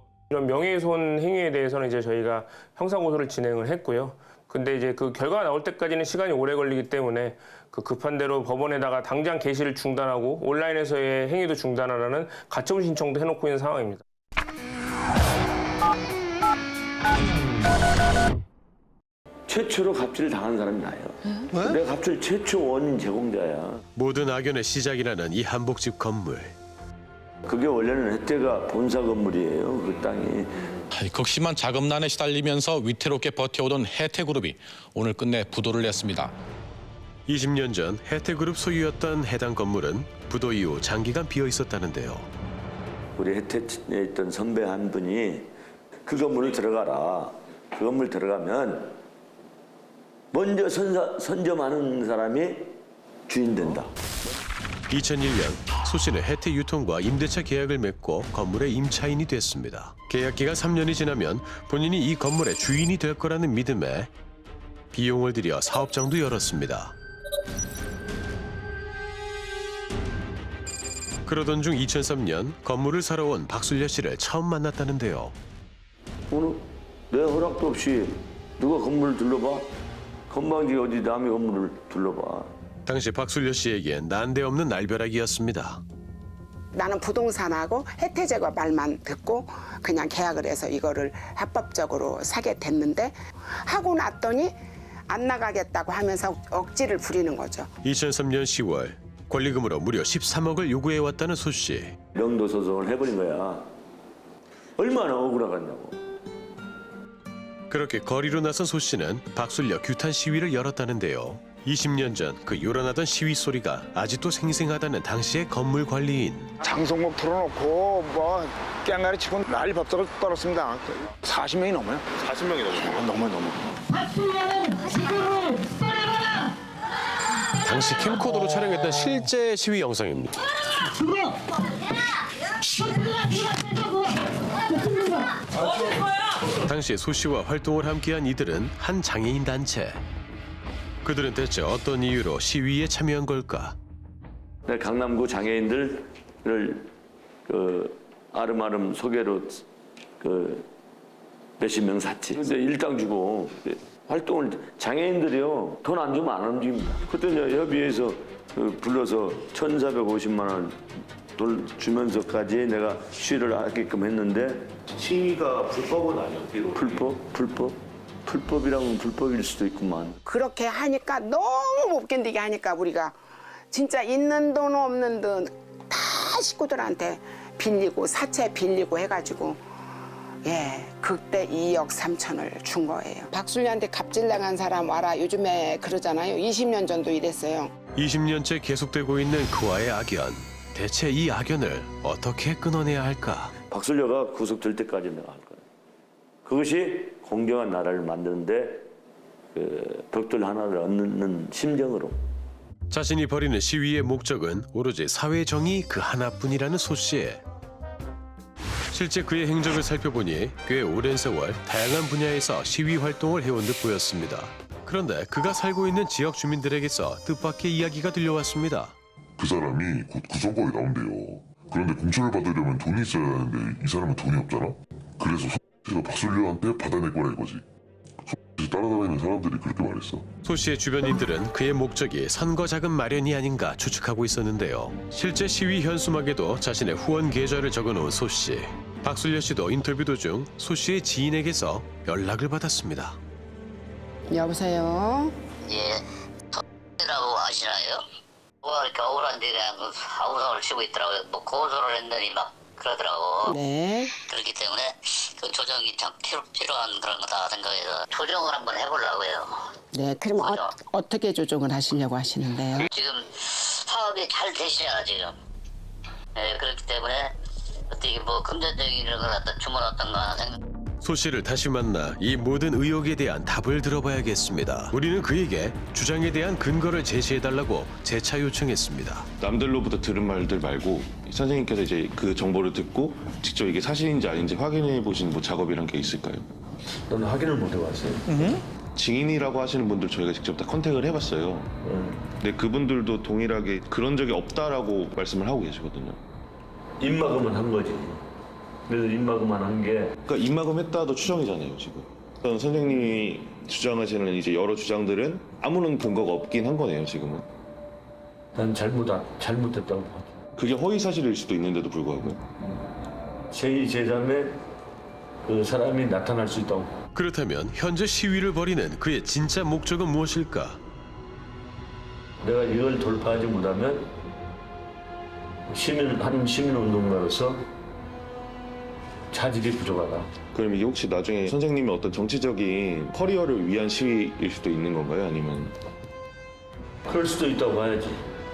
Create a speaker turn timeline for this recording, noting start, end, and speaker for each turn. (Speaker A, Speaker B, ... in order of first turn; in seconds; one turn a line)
Speaker A: 0.3-14.0
Speaker B: 19.5-23.9
Speaker C: 23.9-26.6
Speaker B: 27.4-30.7
Speaker D: 30.9-36.3
Speaker C: 37.3-42.3
Speaker B: 43.2-45.5
Speaker B: 46.0-49.0
Speaker B: 50.3-52.8
Speaker B: 53.3-53.9
Speaker C: 54.9-64.1
Speaker C: 64.9-67.0
Speaker C: 71.2-75.3
Speaker B: 76.3-79.7
Speaker B: 80.3-82.5
Speaker C: 82.8-85.8
Speaker E: 86.7-94.5
Speaker E: 95.1-97.7
Speaker C: 97.8-102.0
Speaker B: 102.1-103.7
Speaker B: 104.8-106.0
Speaker C: 107.7-116.5
Speaker F: 116.6-123.6
Speaker G: 122.7-123.0
Speaker C: 127.6-130.5
Speaker C: 136.7-140.0
Speaker C: 141.0-143.8
Speaker B: 144.7-146.9
Speaker B: 147.5-149.6
Speaker B: 150.2-150.7
Speaker B: 151.6-160.8
Speaker B: 161.3-164.7
Speaker G: 164.9-167.1
Speaker B: 166.7-170.2
Speaker E: 170.2-173.2
Speaker E: 173.7-179.6
Speaker E: 180.4-187.7
Speaker C: 187.9-193.5
Speaker B: 193.7-195.6
Speaker B: 196.4-198.9
Speaker B: 199.5-202.2
Speaker C: 202.9-207.4
Speaker C: 208.9-218.9
Speaker H: 219.4-227.7
Speaker H: 228.2-230.3
Speaker C: 230.4-243.2
Speaker E: 244.3-245.3
Speaker I: 245.7-246.0
Speaker I: 247.0-248.0
Speaker I: 248.6-253.5
Speaker E: 253.5-254.1
Speaker I: 254.3-259.5
Speaker E: 259.9-262.9
Speaker I: 260.4-260.7
Speaker I: 262.9-265.4
Speaker I: 266.4-267.3
Speaker I: 267.9-270.6
Speaker C: 271.0-279.3
Speaker G: 279.4-286.5
Speaker B: 287.1-288.6
Speaker G: 288.3-291.7
Speaker B: 291.8-292.2
Speaker G: 292.4-296.2
Speaker B: 297.0-298.2
Speaker B: 298.9-300.2
Speaker G: 300.3-307.5
Speaker B: 308.6-310.4
Speaker G: 310.6-312.4
Speaker B: 313.5-314.6
Speaker B: 315.4-317.0
Speaker C: 317.1-320.8
Speaker B: 322.4-324.1
Speaker B: 325.7-327.7
Speaker B: 329.3-330.3
Speaker G: 330.5-335.8
Speaker B: 337.1-338.2